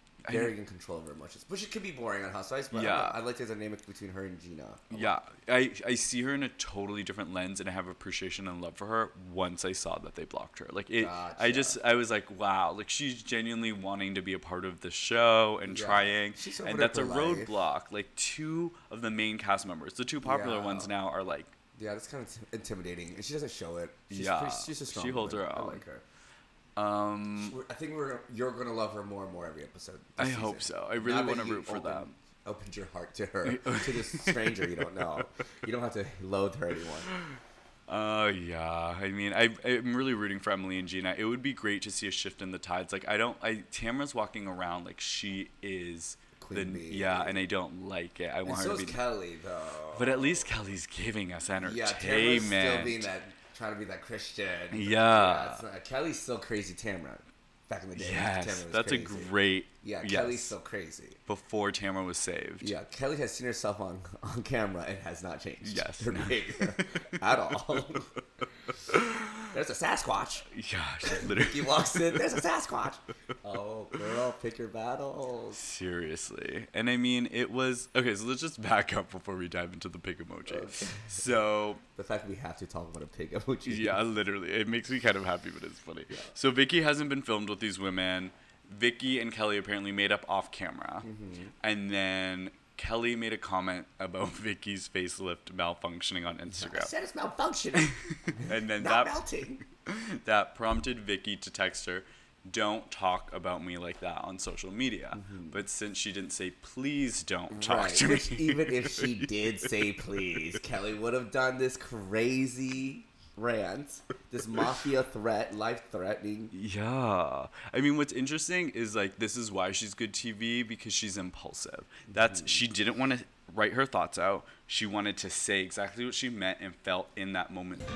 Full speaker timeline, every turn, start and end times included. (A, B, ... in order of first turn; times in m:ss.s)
0:00.2-0:05.2 A
0:00.2-0:00.5 B
0:02.7-0:03.2 B
0:04.9-0:21.5 B
0:11.0-0:11.8 A
0:15.7-0:17.6 A
0:20.2-0:20.9 A
0:21.7-0:26.0 A
0:24.1-0:25.8 B
0:26.8-0:27.5 B
0:27.4-0:37.1 A
0:30.2-0:32.2 B
0:33.4-0:35.2 B
0:37.1-0:49.0 B
0:46.4-0:47.4 A
0:48.4-0:50.5 A
0:49.9-0:53.1 B
0:51.6-1:01.2 A
0:54.7-0:55.6 B
0:58.0-1:00.5 B
1:01.3-1:02.7 B
1:02.6-1:08.2 A
1:05.6-1:07.4 B
1:08.7-1:09.5 B
1:09.5-1:10.5 A
1:10.5-1:12.3 B
1:11.0-1:15.6 A
1:15.5-1:21.8 B
1:20.4-1:21.2 A
1:22.0-1:24.0 A
1:23.6-1:31.1 B
1:31.0-1:31.5 A
1:31.6-1:36.9 B
1:36.5-1:39.6 A
1:37.8-1:49.7 B
1:45.1-1:45.6 A
1:47.5-1:56.5 A
1:56.5-2:07.8 B
2:02.1-2:02.6 A